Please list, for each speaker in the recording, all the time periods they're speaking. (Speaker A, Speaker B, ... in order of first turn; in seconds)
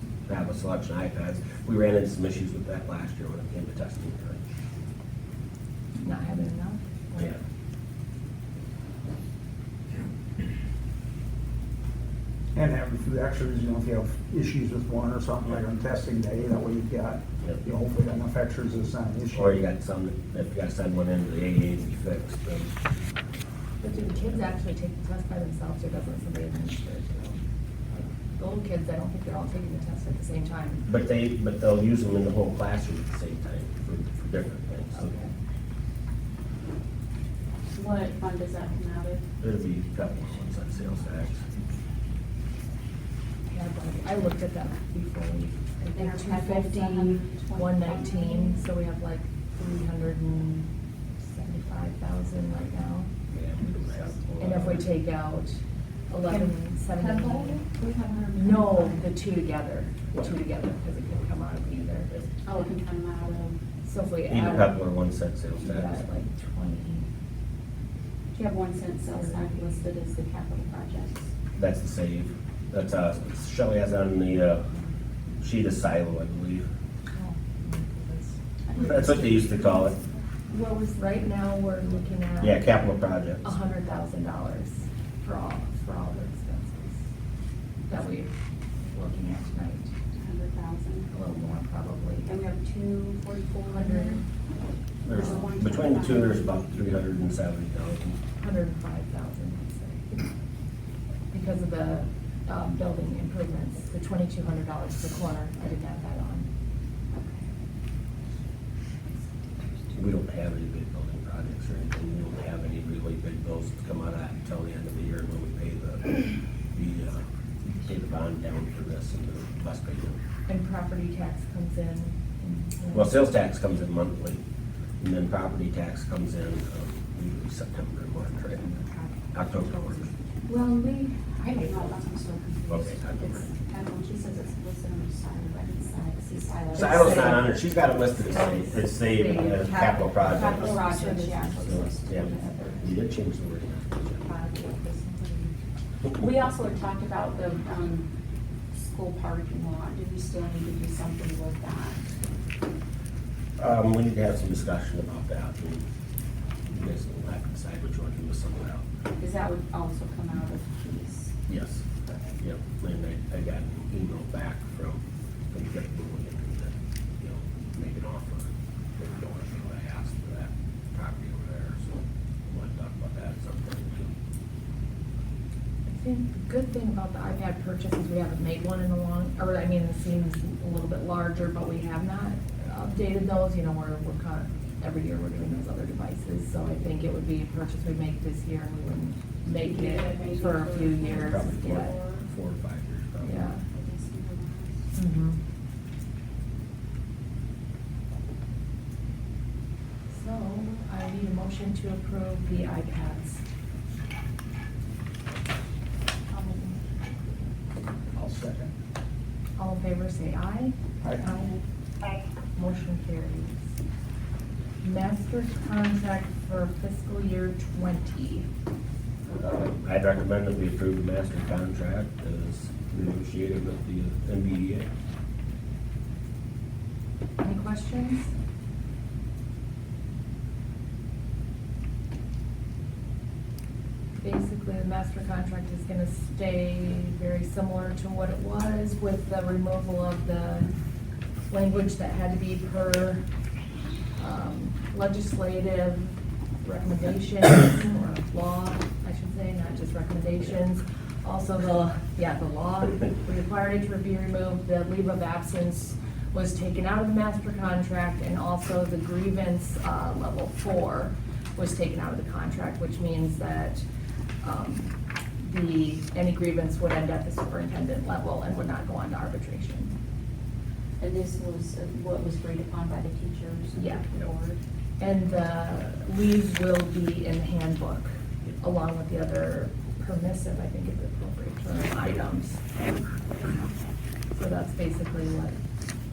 Speaker A: 0.3-4.4, 19.3-22.7, 30.9-35.1, 39.4-41.4, 53.3-54.9, 64.3-66.1, 71.5-74.6, 75.4-76.7, 78.8-80.0, 82.4-83.5, 95.0-98.2, 110.0-120.2, 122.9-124.4, 125.0-128.7, 129.3-130.1, 132.7-133.5, 136.8-140.8, 141.6-144.2, 153.6-155.8, 156.7-158.8, 161.5-161.8, 162.4-165.0, 165.5-174.1, 191.0-193.5, 219.3-224.9
Speaker B: 6.0-7.4, 23.8-30.9, 34.9-35.3, 43.5-53.1, 54.4-55.6, 56.1-57.6, 58.4-62.7, 63.8-64.7, 65.6-67.1, 69.1-69.8, 77.1-78.3, 80.5-82.6, 83.4-87.0, 87.9-88.3, 88.9-89.9, 91.1-92.3, 93.7-94.2, 95.1-95.4, 98.4-100.2, 101.3-106.5, 120.5-123.1, 128.6-130.1, 136.7-137.5, 138.2-141.4, 144.2-145.6, 175.9-191.9, 193.2-193.6, 194.9-195.4, 200.1-203.4, 206.3-206.8, 209.6-211.6, 212.6-213.6, 214.8-218.5, 227.4-228.3, 234.2-240.7, 241.5-243.2, 244.2-263.8, 264.4-269.9, 273.8-274.1, 275.0-282.6, 284.4-285.6
Speaker C: 12.6-19.6, 208.1-208.7
Speaker D: 37.8-39.3, 45.9-48.6, 56.2-59.0, 62.5-63.6, 68.3-71.3, 78.7-79.1, 90.2-91.1, 92.3-94.2, 95.1-96.4, 107.1-107.5, 130.5-137.5, 140.2-142.9, 146.1-148.1, 148.7-152.1, 159.2-161.4, 189.6-192.2, 193.7-194.9, 271.0-274.6